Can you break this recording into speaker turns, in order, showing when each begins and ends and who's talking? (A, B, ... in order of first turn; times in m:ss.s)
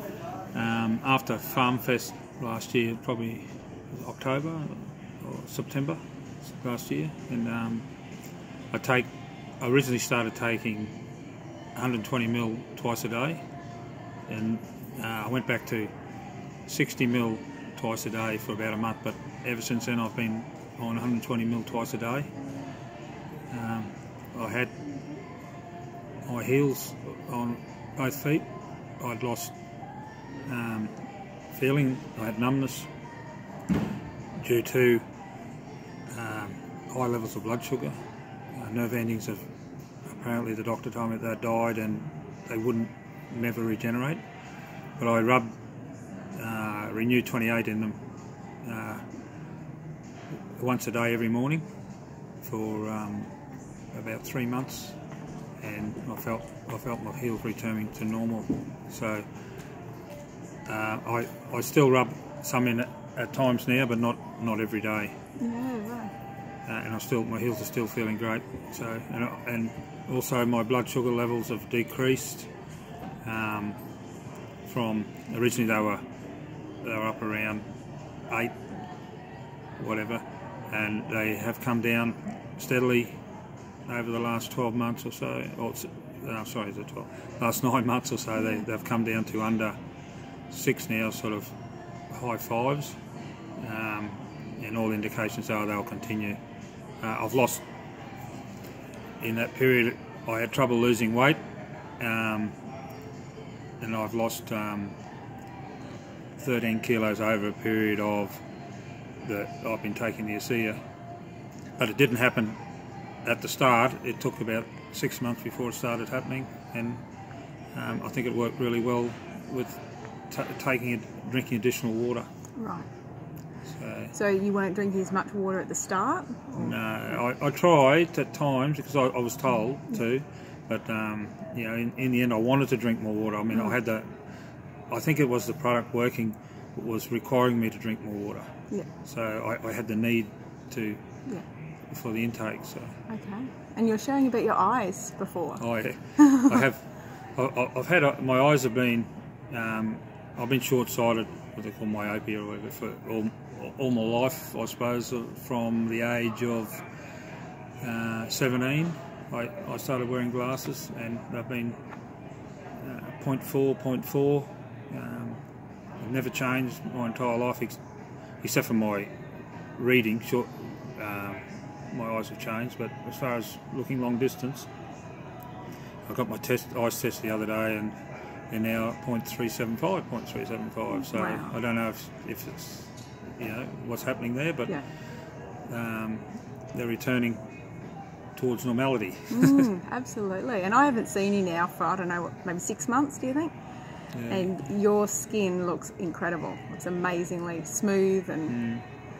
0:00.5-0:07.9 A
0:08.7-0:09.1 A
0:09.6-0:11.0 A
0:11.8-0:13.4 A
0:14.3-0:15.9 A
0:16.7-0:22.3 A
0:23.5-0:24.7 A
0:26.3-0:28.5 A
0:29.0-0:29.6 A
0:30.5-0:30.9 A
0:31.5-0:32.9 A
0:34.4-0:35.1 A
0:36.1-0:38.0 A
0:38.5-0:39.4 A
0:40.1-0:44.2 A
0:45.0-0:45.5 A
0:46.3-0:48.0 A
0:48.6-0:49.0 A
0:50.6-0:51.7 A
0:52.4-0:53.3 A
0:53.9-0:55.0 A
0:55.6-0:59.3 A
1:00.7-1:05.2 A
1:05.4-1:06.1 B
1:06.7-1:12.5 A
1:13.2-1:13.8 A
1:14.7-1:16.0 A
1:16.8-1:17.7 A
1:18.3-1:18.6 A
1:19.8-1:23.2 A
1:23.9-1:29.8 A
1:30.5-1:31.5 A
1:32.1-1:33.0 A
1:33.6-1:36.4 A
1:37.0-1:37.7 A
1:39.2-1:41.4 A
1:42.0-1:42.6 A
1:43.8-1:45.0 A
1:46.4-1:48.4 A
1:49.2-1:50.8 A
1:51.8-1:52.6 A
1:53.2-1:57.0 A
1:57.7-2:02.3 A
2:02.6-2:02.9 B
2:03.7-2:04.2 A
2:04.1-2:06.8 B
2:06.6-2:14.1 A
2:14.9-2:18.5 A
2:19.0-2:21.0 A
2:21.9-2:23.0 A
2:23.1-2:25.6 B
2:25.6-2:36.8 A
2:26.2-2:26.6 B
2:37.8-2:41.8 A
2:42.8-2:45.4 A
2:46.0-2:47.8 A
2:48.4-2:49.1 A
2:49.8-2:54.7 A
2:56.1-2:58.0 A
2:58.5-3:04.8 A
3:01.1-3:01.5 B
3:05.7-3:07.4 A
3:08.4-3:09.7 A
3:09.3-3:13.5 B
3:14.1-3:14.5 A
3:14.3-3:18.6 B
3:18.5-3:18.8 A